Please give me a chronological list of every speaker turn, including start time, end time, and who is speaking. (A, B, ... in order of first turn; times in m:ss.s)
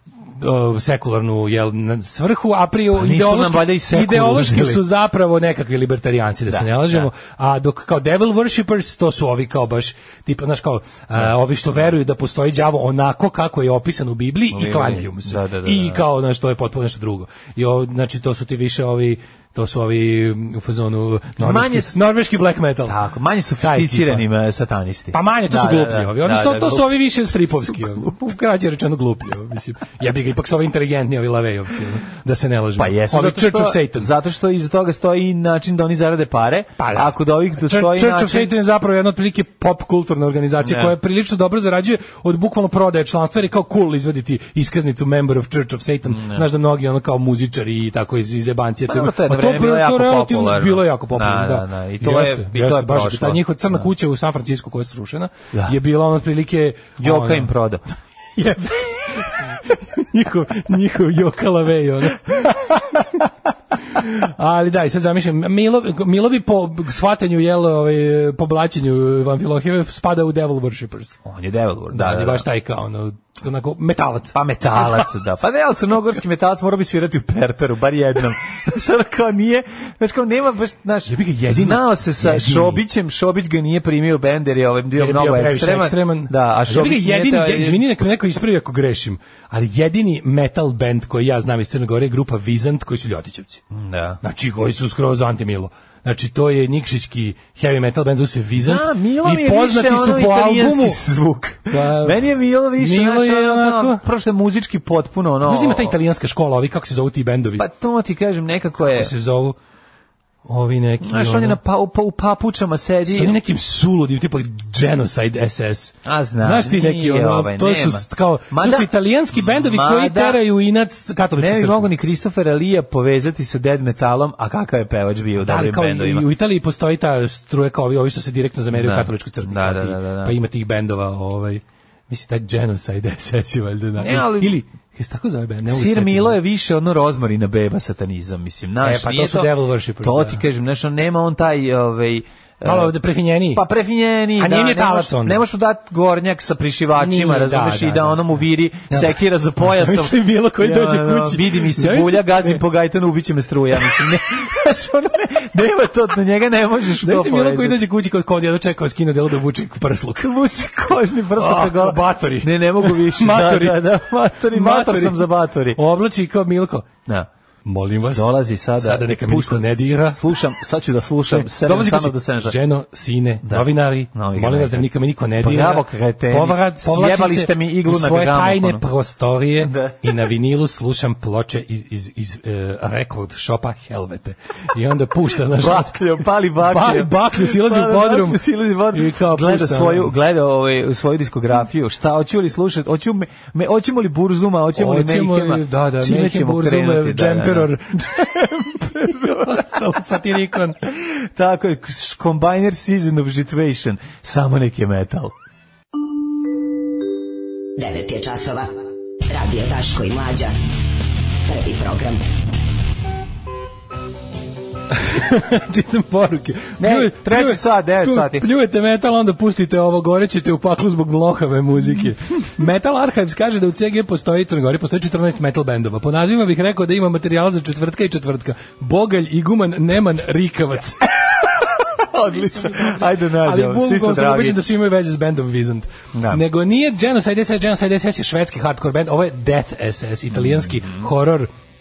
0:00.4-0:23.0 A
0:02.9-0:04.8 B
0:06.5-0:07.1 B
0:14.5-0:16.0 B
0:21.4-0:22.0 B
0:22.8-0:28.1 B
0:23.6-0:24.2 A
0:25.1-0:34.1 A
0:32.8-0:38.5 B
0:36.8-0:57.5 A
0:40.6-0:40.9 B
0:46.0-0:46.4 B
0:48.9-0:53.9 B
0:57.0-0:57.8 B
0:58.4-1:03.2 A
1:03.9-1:11.2 A
1:11.2-1:12.4 B
1:11.9-1:15.0 A
1:14.3-1:27.8 B
1:21.1-1:22.8 A
1:25.0-1:33.6 A
1:33.7-1:34.2 B
1:34.2-1:41.0 A
1:38.6-1:45.9 B
1:41.7-1:42.2 A
1:42.8-1:44.0 A
1:45.4-1:47.6 A
1:47.6-1:49.1 B
1:48.8-1:49.5 A
1:50.4-1:51.6 A
1:51.0-1:53.4 B
1:53.1-2:01.9 A
1:56.0-2:00.4 B
2:01.4-2:06.3 B
2:05.4-2:16.4 A
2:08.7-2:10.4 B
2:14.0-2:14.6 B
2:15.7-2:23.0 B
2:18.8-2:20.4 A
2:22.6-2:23.6 A
2:23.5-2:37.8 B
2:24.4-2:25.4 A
2:27.0-2:28.2 A
2:28.9-2:32.6 A
2:37.0-2:40.3 A
2:40.2-2:45.8 B
2:41.3-2:46.9 A
2:47.6-2:50.2 A
2:48.1-2:52.6 B
2:51.3-3:10.1 A
2:53.4-2:58.8 B
2:59.6-3:00.2 B
3:05.5-3:18.2 B
3:14.8-3:20.8 A
3:19.0-3:19.6 B
3:20.8-3:25.3 B
3:27.8-3:28.6 C
3:29.3-3:30.5 C
3:31.5-3:32.2 C
3:34.9-3:51.5 A
3:36.8-3:38.5 B
3:52.0-3:54.6 B
3:52.1-4:01.5 A
3:56.1-3:56.4 B
4:00.3-4:01.1 B